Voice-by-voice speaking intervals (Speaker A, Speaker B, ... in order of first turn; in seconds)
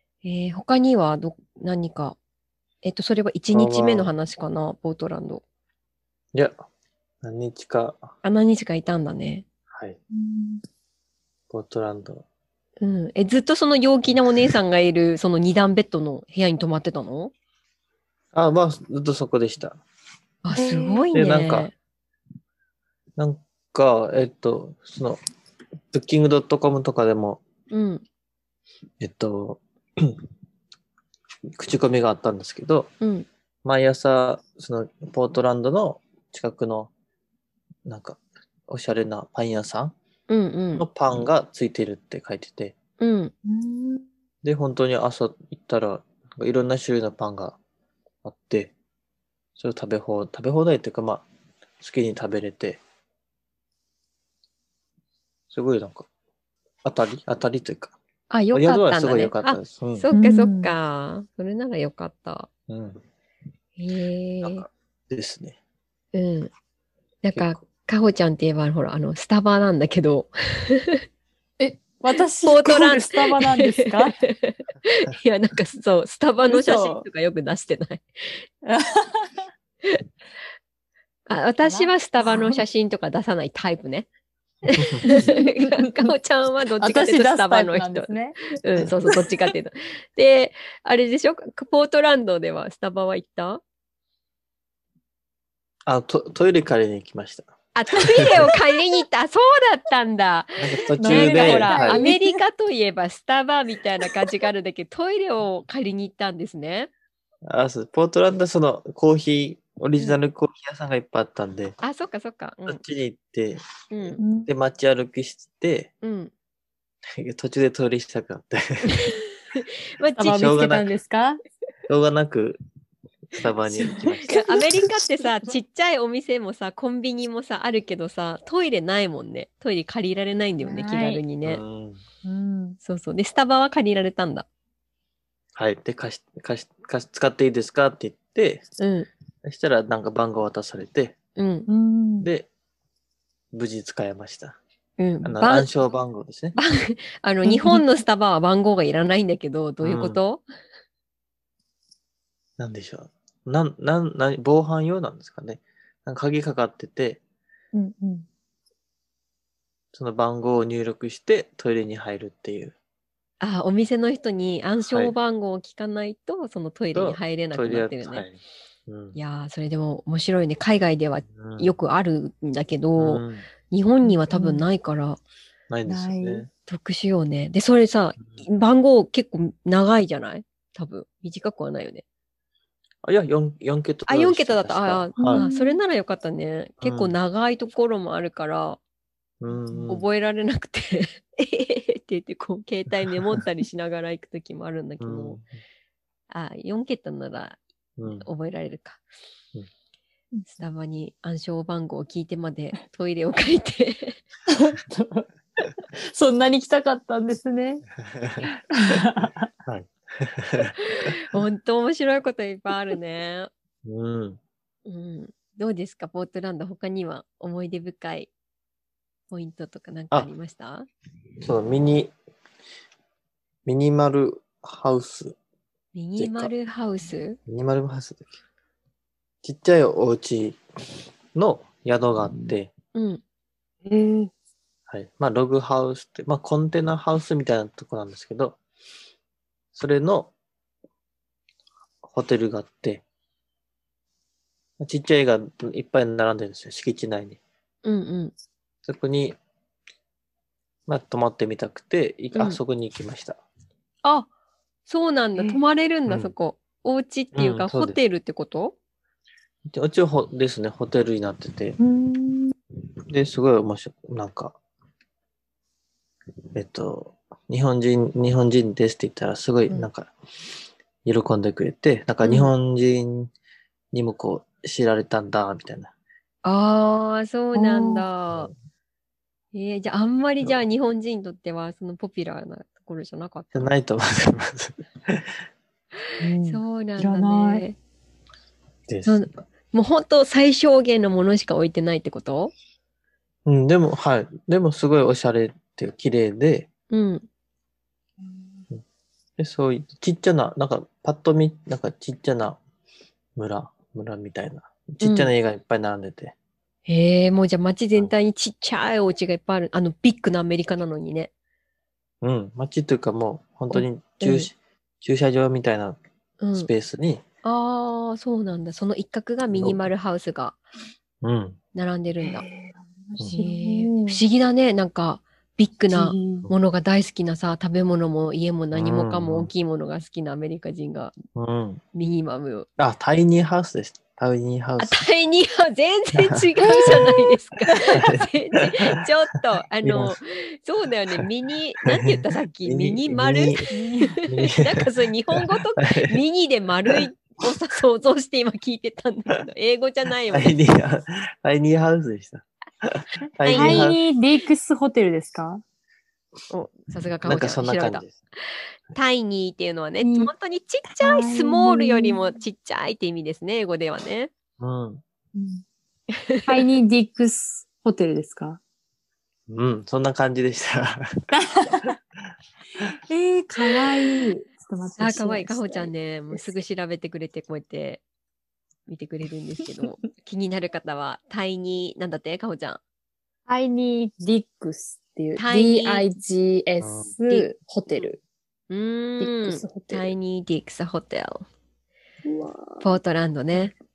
Speaker A: 0.2-2.2, 2.8-5.4, 8.2-9.4, 12.8-17.3, 20.4-21.7, 27.7-28.0, 33.0-33.3, 40.3-40.9, 43.0-43.3, 58.3-62.5, 63.8-64.6, 66.1-66.5, 67.2-71.0, 72.4-78.4, 81.3-84.1, 84.6-93.6, 97.7-106.9, 111.8-112.8, 113.9-114.2, 116.0-116.3, 119.0-120.5, 124.3-131.6, 132.8-134.4, 138.8-139.1, 141.4-141.7, 145.0-145.7, 146.5-150.4, 163.4-168.2, 169.1-175.2, 176.7-182.0, 184.1-188.8, 189.9-195.4, 196.3-197.6, 198.2-199.0, 200.6-204.2, 210.8-213.5, 214.8-218.3, 219.3-220.9, 225.9-227.4, 232.9-233.2, 247.8-248.3, 252.3-252.6, 254.9-258.8, 272.2-272.5, 276.4-278.5, 279.5-283.7, 286.4-287.8, 289.0-292.5, 296.9-297.2, 305.0-305.3, 306.9-311.3, 313.7-314.5, 316.4-316.7, 317.4-320.6, 321.7-322.4, 323.3-331.1, 331.9-332.7, 334.8-350.6, 353.4-353.9, 356.5-364.3, 366.1-366.7, 375.0-378.0, 378.9-382.8, 385.4-386.1, 387.3-388.1, 388.7-391.4, 392.8-393.7
Speaker B: 3.5-4.1, 7.2-8.1, 9.7-10.0, 11.5-12.2, 18.3-19.8, 21.1-21.7, 23.2-25.2, 25.9-27.4, 29.0-30.2, 31.5-32.9, 33.6-36.9, 37.9-39.9, 40.8-42.8, 44.4-47.6, 48.2-48.7, 49.5-51.2, 51.8-52.8, 55.5-56.1, 56.8-58.0, 58.5-60.1, 62.7-63.0, 64.4-65.6, 67.3-67.7, 84.8-85.0, 95.8-97.5, 98.2-98.5, 100.6-102.0, 107.5-111.8, 112.7-115.9, 117.1-119.1, 120.3-120.9, 121.9-122.6, 123.3-124.4, 131.4-132.0, 135.5-138.6, 139.4-141.2, 142.2-142.5, 143.5-144.6, 145.2-146.6, 149.8-150.2, 152.6-157.2, 159.9-162.7, 164.8-165.1, 166.9-169.2, 171.3-171.7, 173.0-173.4, 175.7-176.5, 183.0-185.4, 186.8-187.1, 189.4-190.0, 193.1-193.4, 195.0-195.4, 198.0-198.3, 208.1-209.0, 209.6-211.1, 213.8-214.4, 221.4-222.1, 223.7-225.4, 226.2-226.5, 227.5-228.4, 229.4-230.6, 231.3-232.7, 234.9-238.6, 239.7-240.3, 242.0-243.0, 244.8-247.4, 248.8-249.3, 250.9-253.4, 256.1-256.3, 257.3-258.0, 259.6-261.8, 263.1-264.6, 266.5-270.1, 271.0-273.3, 273.9-275.9, 283.5-285.4, 288.9-289.2, 293.4-296.7, 299.4-302.6, 303.4-306.3, 312.2-316.0, 316.5-317.2, 319.5-319.9, 321.2-321.6, 328.7-329.5, 331.3-331.8, 332.8-335.0, 336.1-339.0, 339.8-340.1, 342.6-343.7, 344.2-346.2, 350.3-354.0, 357.2-358.1, 364.6-365.0, 369.5-371.1, 386.8-387.1
Speaker C: 10.1-10.6, 20.5-21.1, 43.4-44.0, 60.1-60.7, 71.6-74.2, 76.5-77.0, 78.6-79.5, 81.6-82.6, 85.0-86.1, 86.8-88.4, 101.0-102.3, 114.2-114.5, 120.2-121.4, 123.8-124.9, 130.6-131.2, 132.2-132.8, 141.7-142.3, 147.4-147.8, 157.7-158.2, 174.0-174.6, 175.8-176.4, 185.2-185.8, 189.5-189.9, 200.3-200.6, 204.5-207.8, 208.4-209.5, 233.8-234.3, 261.8-262.5, 277.5-278.0, 286.2-287.6, 298.2-298.6, 322.2-324.2, 325.9-326.5, 336.6-337.0, 343.7-344.2, 353.5-355.6, 360.0-360.3, 361.0-362.2, 365.3-365.6, 366.4-368.6, 371.3-372.0, 373.1-376.6, 383.5-388.2, 389.2-390.1, 392.2-392.8